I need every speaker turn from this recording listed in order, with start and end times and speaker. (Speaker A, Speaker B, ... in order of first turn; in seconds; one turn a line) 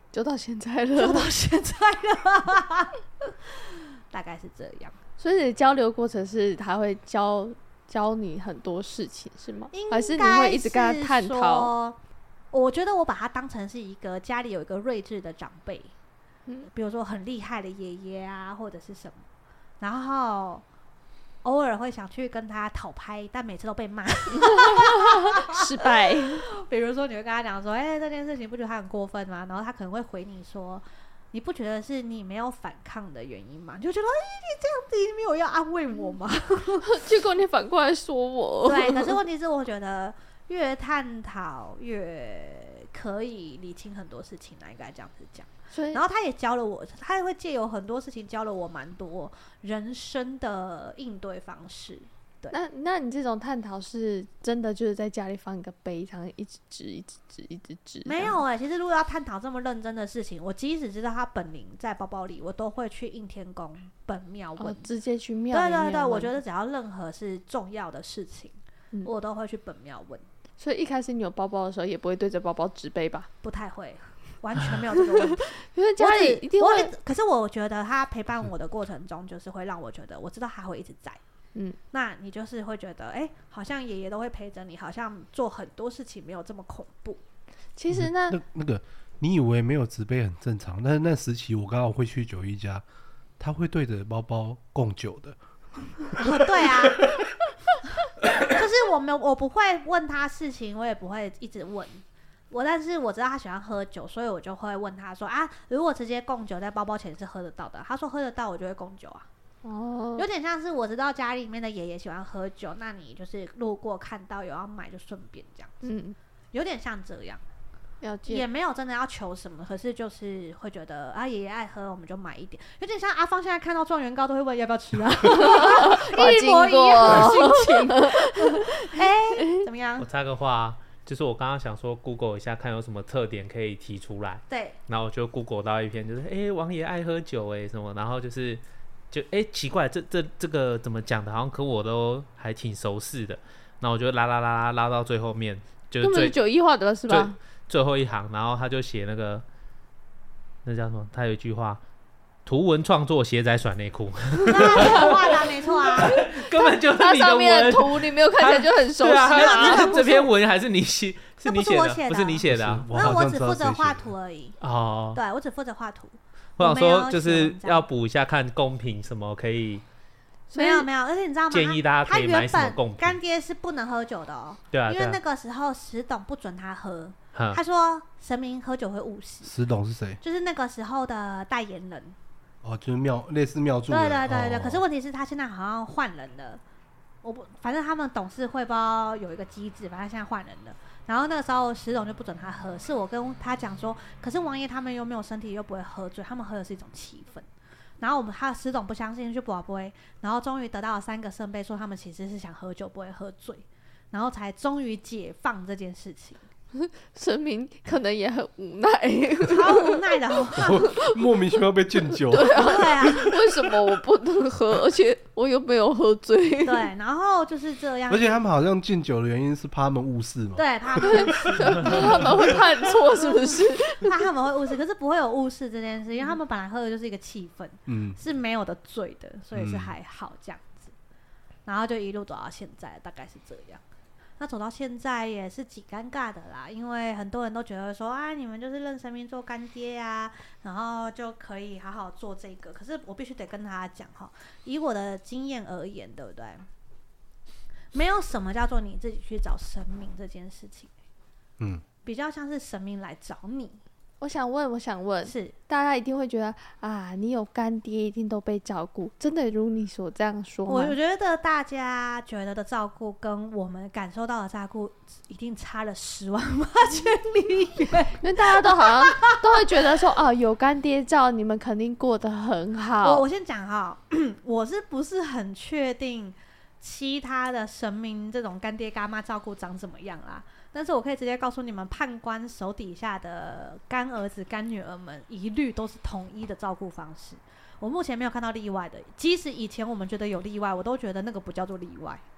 Speaker A: 0.1-1.3
Speaker B: 1.0-5.0
Speaker A: 5.2-11.7
Speaker B: 9.7-12.0
Speaker B: 12.5-15.9
Speaker B: 16.7-19.2
Speaker B: 19.8-20.6
Speaker B: 21.4-37.0
Speaker A: 24.3-26.5
Speaker A: 36.8-39.2
Speaker B: 38.6-52.6
Speaker A: 45.7-46.0
Speaker A: 52.5-58.4
Speaker B: 58.0-64.9
Speaker A: 64.6-66.3
Speaker B: 65.5-70.2
Speaker A: 70.6-73.3
Speaker B: 73.4-81.2
Speaker A: 75.1-76.9
Speaker B: 81.9-87.2
Speaker A: 87.8-88.4
Speaker C: 87.9-92.8
Speaker C: 93.4-95.4
Speaker C: 96.1-96.4
Speaker B: 96.2-97.1
Speaker B: 98.5-109.3
Speaker A: 109.6-110.3
Speaker B: 110.2-115.8
Speaker A: 115.8-116.2
Speaker B: 116.5-117.4
Speaker A: 118.0-118.5
Speaker B: 118.3-130.1
Speaker A: 125.3-129.7
Speaker D: 130.0-146.4
Speaker B: 134.5-134.8
Speaker A: 146.0-147.4
Speaker D: 147.1-149.4
Speaker D: 150.6-151.8
Speaker D: 152.5-163.2
Speaker B: 154.5-156.2
Speaker A: 154.6-155.1
Speaker A: 155.9-160.0
Speaker B: 159.3-160.3
Speaker B: 161.4-164.6
Speaker C: 162.5-164.1
Speaker D: 164.6-165.2
Speaker B: 165.1-167.9
Speaker D: 166.6-169.8
Speaker A: 170.5-170.9
Speaker B: 170.5-179.5
Speaker D: 171.5-173.2
Speaker D: 174.7-175.2
Speaker D: 177.3-177.6
Speaker C: 179.4-180.2
Speaker B: 180.2-182.2
Speaker C: 182.6-184.8
Speaker B: 183.9-186.6
Speaker B: 187.2-197.5
Speaker B: 198.0-206.4
Speaker A: 206.8-211.3
Speaker B: 209.4-210.9
Speaker C: 210.6-213.2
Speaker A: 212.3-216.9
Speaker B: 212.5-213.3
Speaker B: 216.6-218.4
Speaker C: 218.1-222.2
Speaker B: 220.6-230.9
Speaker A: 221.0-224.3
Speaker C: 227.9-228.2
Speaker C: 229.6-229.9
Speaker B: 231.7-233.8
Speaker B: 234.4-246.7
Speaker B: 247.9-250.9
Speaker B: 252.1-253.8
Speaker A: 254.2-261.0
Speaker B: 255.2-255.6
Speaker B: 260.7-270.0
Speaker A: 268.2-273.2
Speaker B: 273.0-292.2